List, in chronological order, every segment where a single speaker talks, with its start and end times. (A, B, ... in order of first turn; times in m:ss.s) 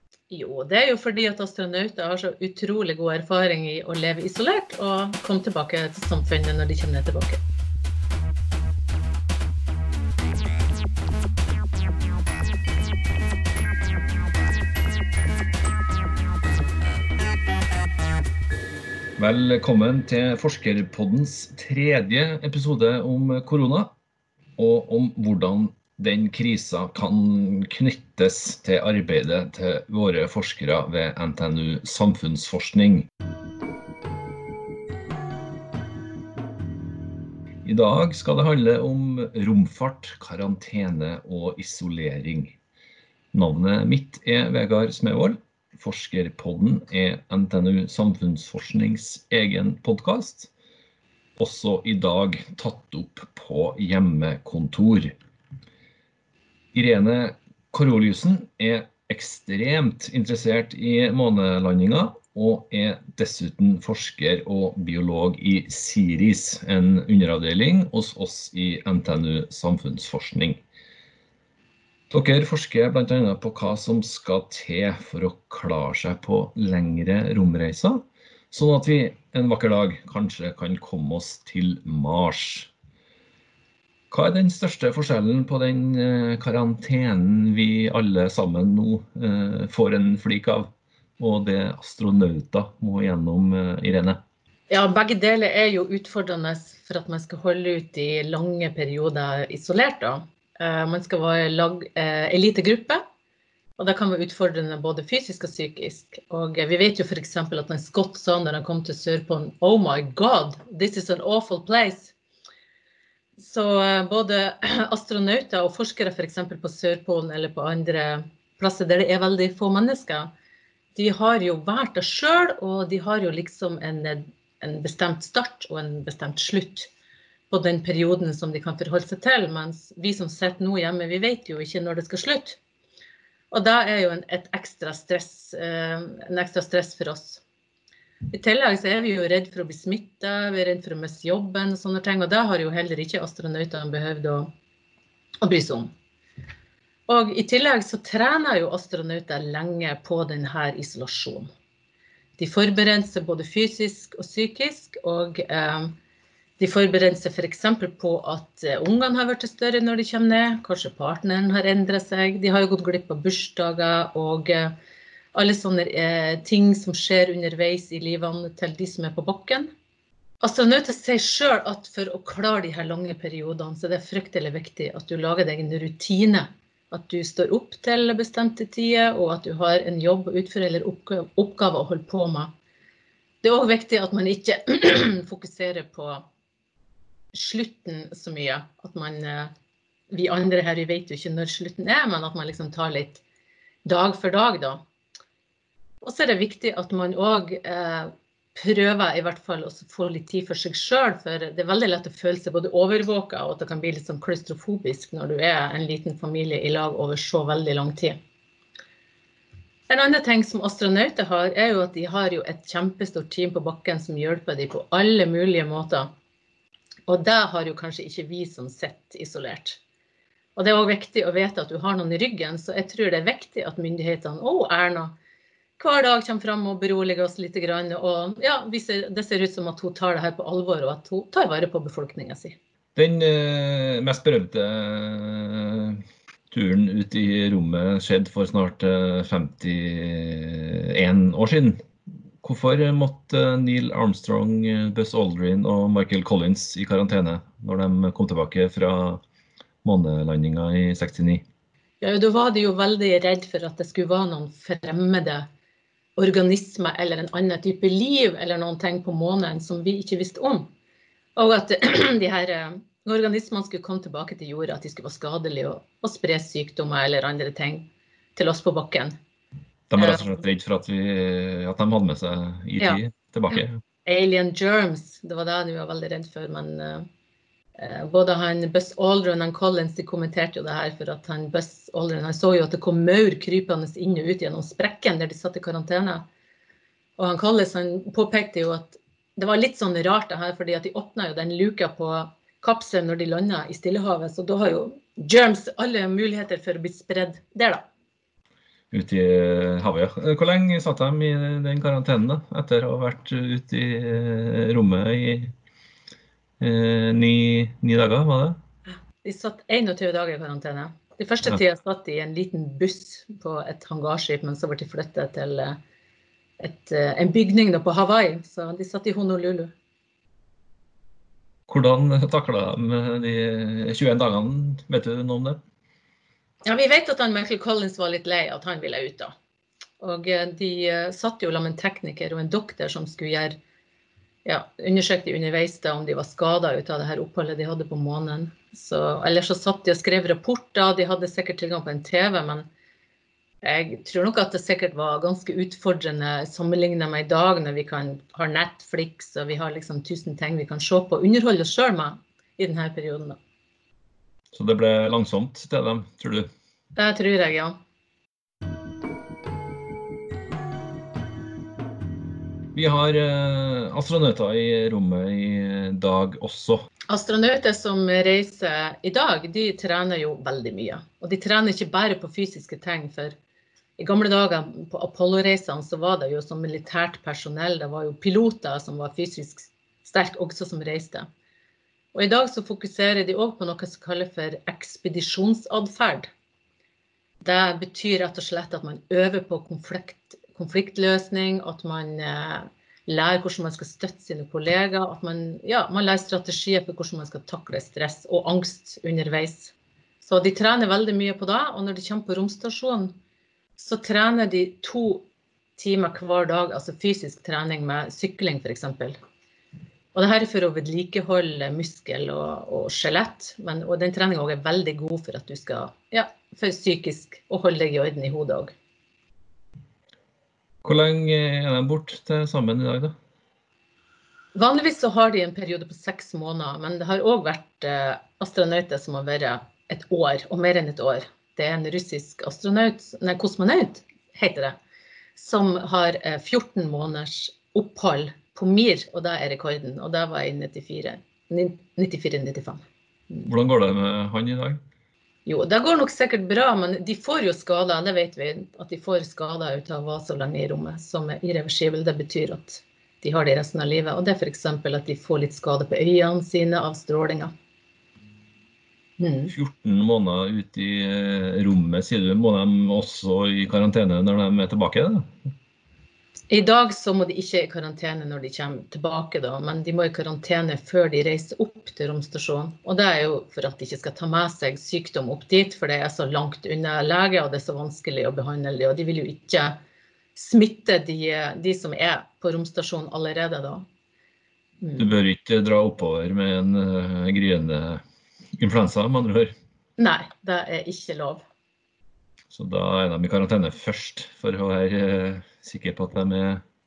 0:00.3-0:07.4 A
0:19.2-0:23.9 B
0:24.6-0:33.1 B
0:37.6-0:42.6 B
0:43.3-0:50.5 B
0:51.4-0:55.2 B
0:56.7-1:10.6 B
1:12.1-1:22.7 B
1:24.1-1:34.2 B
1:34.7-1:43.0 A
1:43.8-1:52.1 A
1:53.4-2:00.3 A
2:01.0-2:06.9 A
2:07.5-2:12.6 A
2:13.5-2:17.4 A
2:18.3-2:24.5 A
2:25.4-2:25.9 A
2:27.1-2:31.5 A
2:32.4-2:36.0 A
2:36.6-2:44.7 A
2:45.3-2:49.7 A
2:50.4-3:02.5 A
3:03.4-3:06.3 A
3:07.3-3:09.5 A
3:10.1-3:13.2 A
3:13.8-3:14.8 A
3:16.0-3:28.2 A
3:29.9-3:36.1 A
3:37.1-3:39.8 A
3:40.6-3:45.2 A
3:45.8-3:52.6 A
3:53.0-4:01.8 B
4:02.4-4:09.2 B
4:09.8-4:11.4 B
4:12.0-4:15.5 A
4:16.2-4:20.7 A
4:21.4-4:29.1 A
4:29.9-4:33.8 B
4:30.0-4:30.4 A
4:33.5-4:37.1 A
4:37.8-4:46.3 A
4:47.2-4:57.8 A
4:58.9-5:05.5 B
5:06.6-5:08.6 B
5:09.2-5:15.8 A
5:16.6-5:19.7 A
5:21.7-5:25.6 B
5:26.6-5:29.3 A
5:30.0-5:33.6 A
5:34.4-5:42.7 A
5:43.6-5:53.4 A
5:54.5-5:56.5 B
5:57.0-5:57.8 A
6:02.8-6:06.8 B
6:07.1-6:13.4 A
6:14.0-6:21.3 A
6:22.1-6:26.3 A
6:27.4-6:43.2 A
6:43.8-6:49.2 A
6:50.1-6:58.7 A
7:00.8-7:03.2 B
7:04.6-7:14.8 A
7:15.4-7:23.5 A
7:23.4-7:24.8 B
7:25.5-7:37.5 A
7:39.2-7:39.5 A
7:39.5-7:45.3 B
7:46.5-7:59.8 A
8:00.4-8:03.8 A
8:04.8-8:05.2 A
8:05.0-8:08.0 B
8:08.6-8:09.5 B
8:10.0-8:11.4 A
8:12.5-8:16.6 B